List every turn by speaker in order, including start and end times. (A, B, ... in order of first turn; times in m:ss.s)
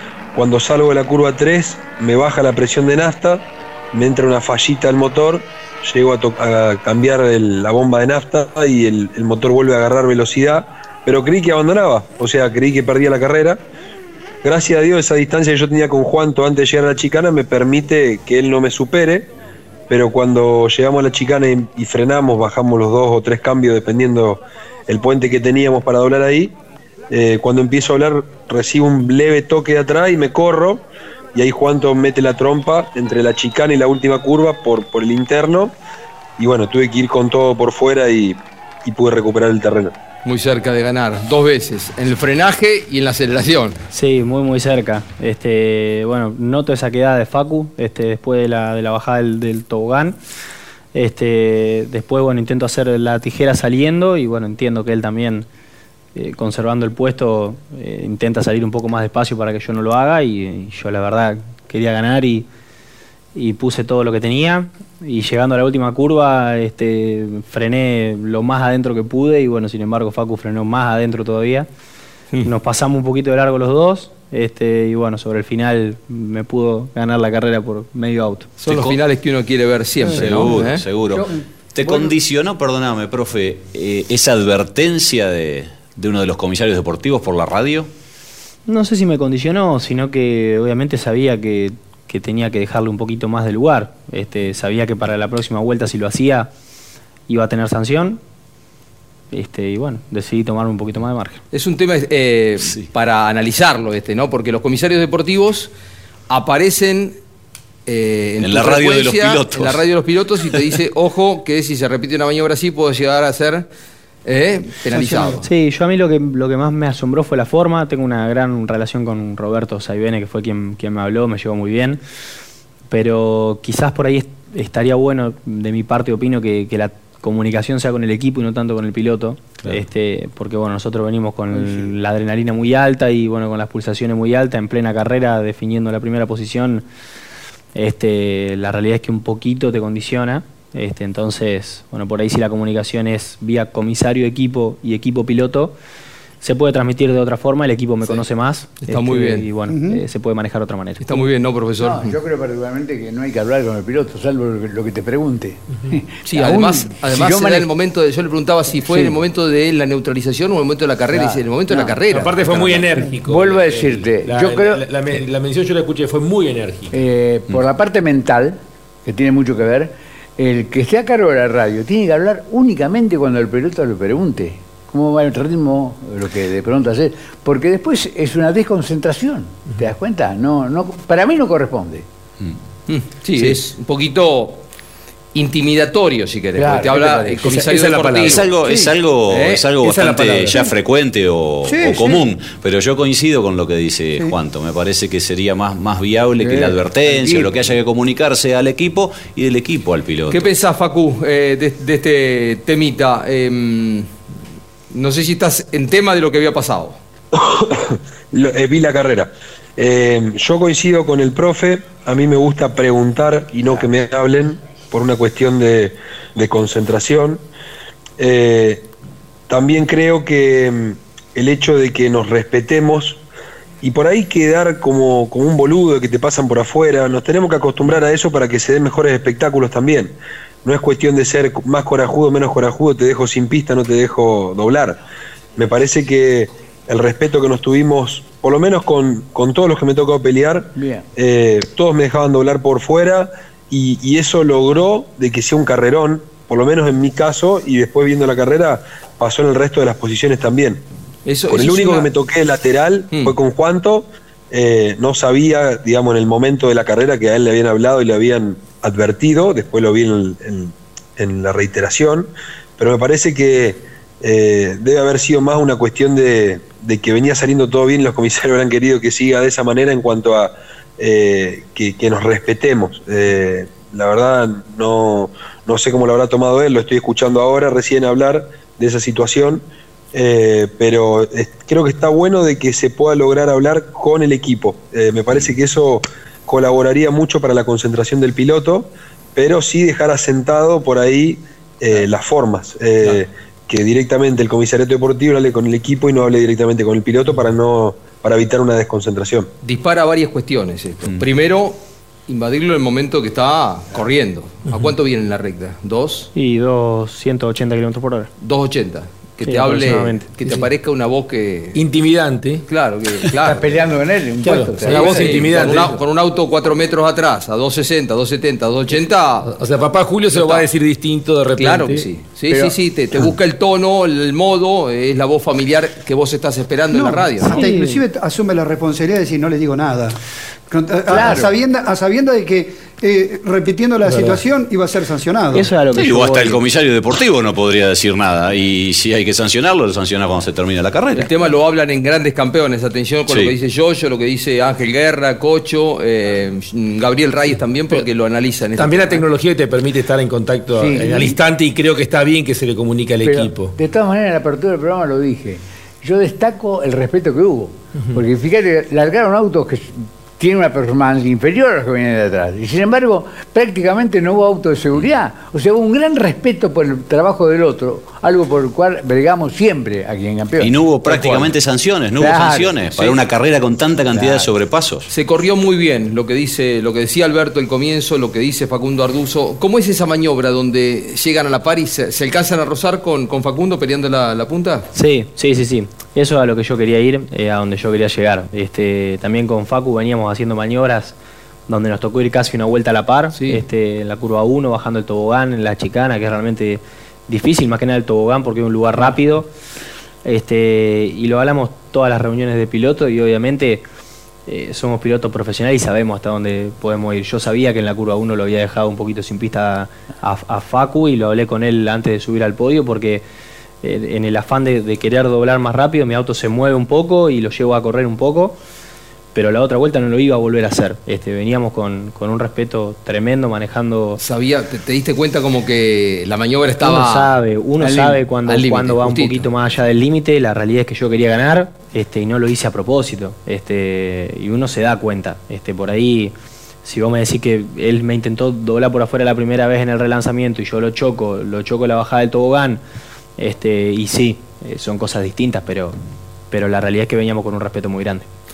0:00.3-0:13.6 A
0:14.4-0:19.3 A
0:19.9-0:26.6 A
0:27.1-0:35.7 A
0:36.4-0:40.0 A
0:40.2-0:43.8 B
0:43.9-0:50.2 C
0:50.9-0:55.5 C
0:56.2-1:02.5 C
1:03.4-1:11.7 C
1:12.4-1:18.5 C
1:18.6-1:20.9 B
1:18.7-1:19.0 D
1:20.0-1:20.6 E
1:20.1-1:27.9 D
1:28.7-1:36.5 C
1:37.3-1:38.2 C
1:39.3-1:41.4 C
1:41.5-1:45.7 B
1:46.3-1:47.2 B
1:47.9-1:53.7 B
1:48.4-1:49.8 D
1:54.2-1:55.4 B
1:54.9-1:55.4 E
1:55.4-2:02.0 C
2:02.9-2:16.9 C
2:11.5-2:11.9 F
2:17.8-2:25.8 C
2:26.4-2:31.3 C
2:28.8-2:29.5 B
2:29.7-2:30.0 E
2:31.0-2:32.2 B
2:31.8-2:37.7 F
2:36.2-2:42.8 B
2:38.8-2:39.2 F
2:41.1-2:44.9 F
2:42.1-2:47.0 G
2:46.9-3:02.1 F
3:02.9-3:04.6 B
3:05.3-3:08.4 B
3:06.6-3:07.8 F
3:07.5-3:08.4 G
3:08.2-3:20.5 D
3:08.6-3:08.9 E
3:09.3-3:09.9 B
3:09.8-3:10.7 F
3:11.7-3:12.2 E
3:16.4-3:17.7 F
3:20.3-3:24.2 B
3:24.9-3:27.0 B
3:27.3-3:37.4 A
3:38.2-3:38.9 A
3:39.5-3:43.2 A
3:43.8-3:55.0 A
3:55.6-4:10.8 A
4:00.8-4:01.1 F
4:11.2-4:12.1 B
4:11.5-4:59.5 A
4:13.1-4:13.4 B
4:59.6-5:06.3 B
5:06.4-5:08.3 C
5:08.4-5:11.8 B
5:09.4-5:10.3 C
5:11.8-5:12.6 G
5:12.6-5:13.8 B
5:13.4-5:16.0 F
5:14.4-5:16.0 G
5:14.8-5:19.5 B
5:19.5-5:22.1 G
5:20.3-5:20.7 B
5:21.6-5:27.6 B
5:22.5-5:22.8 F
5:26.9-5:30.2 E
5:27.4-5:28.0 C
5:30.7-5:35.7 E
5:31.1-5:31.6 F
5:34.1-5:34.4 G
5:35.5-5:36.6 C
5:35.9-5:41.3 D
5:41.1-5:49.2 B
5:43.3-5:43.6 D
5:48.8-5:53.8 G
5:50.8-5:51.4 F
5:53.2-6:10.9 F
6:10.6-6:15.1 D
6:11.1-6:11.5 B
6:12.2-6:12.8 F
6:12.8-6:13.2 B
6:14.1-6:14.5 F
6:15.1-6:24.9 B
6:24.9-6:31.2 C
6:31.7-6:39.5 C
6:33.3-6:33.6 B
6:40.2-6:43.8 C
6:44.5-6:53.2 C
6:53.8-6:58.6 C
6:59.3-7:04.2 C
7:04.2-7:07.3 B
7:06.8-7:16.3 C
7:08.4-7:09.5 B
7:16.8-7:22.8 C
7:23.4-7:26.0 C
7:26.5-7:28.3 C